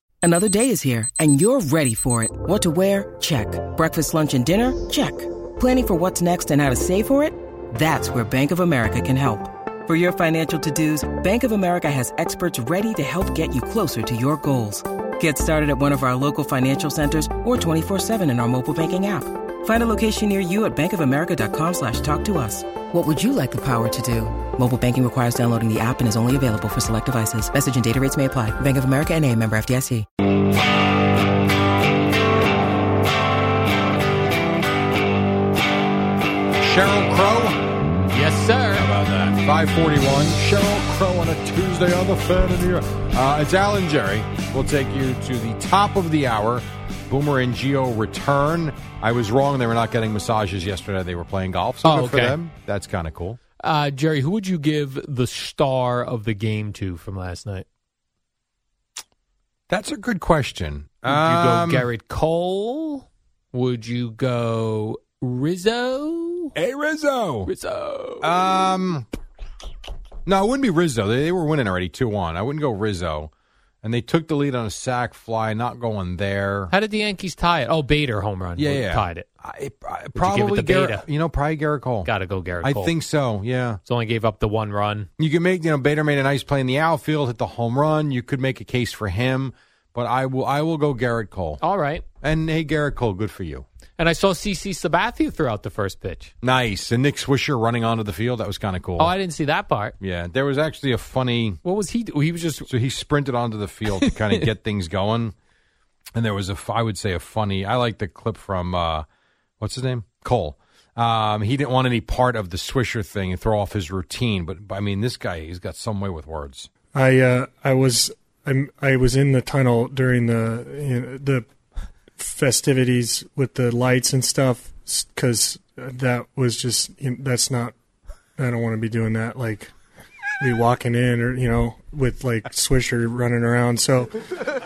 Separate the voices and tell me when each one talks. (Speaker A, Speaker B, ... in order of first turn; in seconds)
Speaker A: 0.2-30.0
Speaker B: 36.6-37.7, 38.7-53.4, 59.7-61.9, 66.5-67.5, 68.2-69.0, 70.2-73.3, 73.8-76.7, 78.6-82.1, 82.6-83.8, 85.2-91.6, 92.2-93.6, 96.4-99.1, 100.0-101.6, 102.7-105.3, 106.1-109.0, 109.6-116.7
Speaker C: 38.1-38.9, 51.8-52.4, 53.6-57.6, 61.0-66.5, 67.4-68.3, 76.7-79.3, 80.1-81.0, 82.0-82.9, 83.8-85.1, 91.6-92.0, 94.0-96.3, 99.0-100.0, 101.6-102.7, 103.9-104.5
Speaker D: 117.0-121.4, 122.2-127.7, 128.4-129.7, 130.5-134.0